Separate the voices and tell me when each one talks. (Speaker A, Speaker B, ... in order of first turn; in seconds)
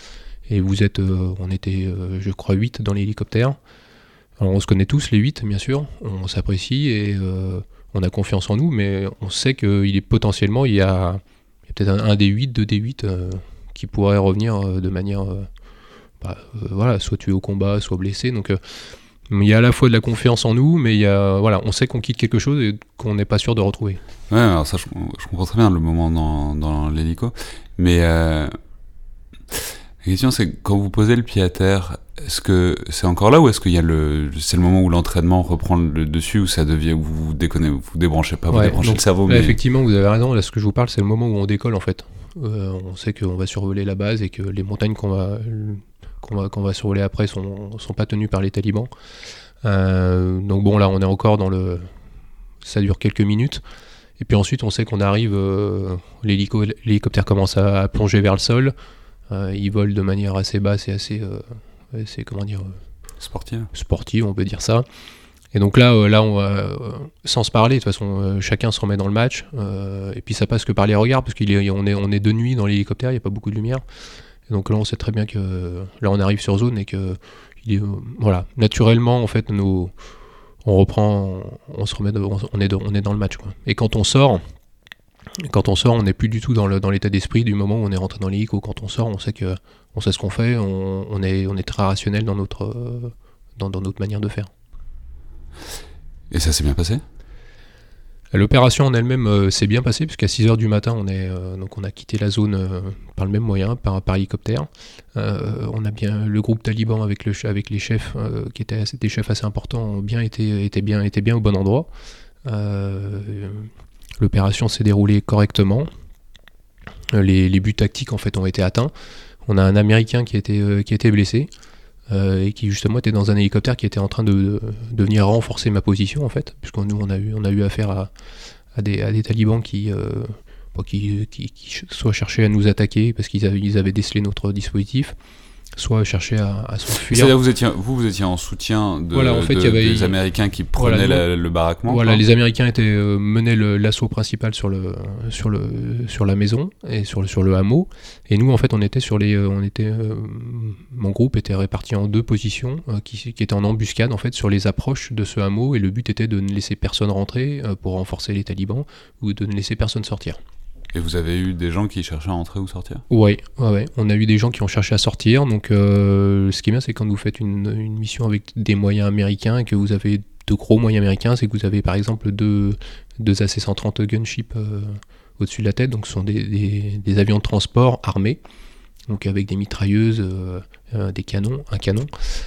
Speaker A: 0.5-3.6, 4.4-15.5, 16.2-18.6, 19.3-24.0, 38.5-48.9, 49.6-51.9, 52.6-53.6, 54.2-58.7, 59.3-62.8, 63.7-64.8, 65.5-73.8, 74.5-79.9, 80.6-84.4, 85.4-94.5, 98.3-111.9, 112.4-115.9, 117.1-118.9, 119.5-121.5, 122.1-128.1, 128.7-135.1, 135.8-137.3, 139.1-140.2, 140.8-141.2, 141.8-160.4, 163.1-178.4, 179.1-182.1
Speaker B: 24.3-28.5, 29.5-39.6, 63.2-63.7, 96.3-97.0, 137.1-142.2, 160.9-163.0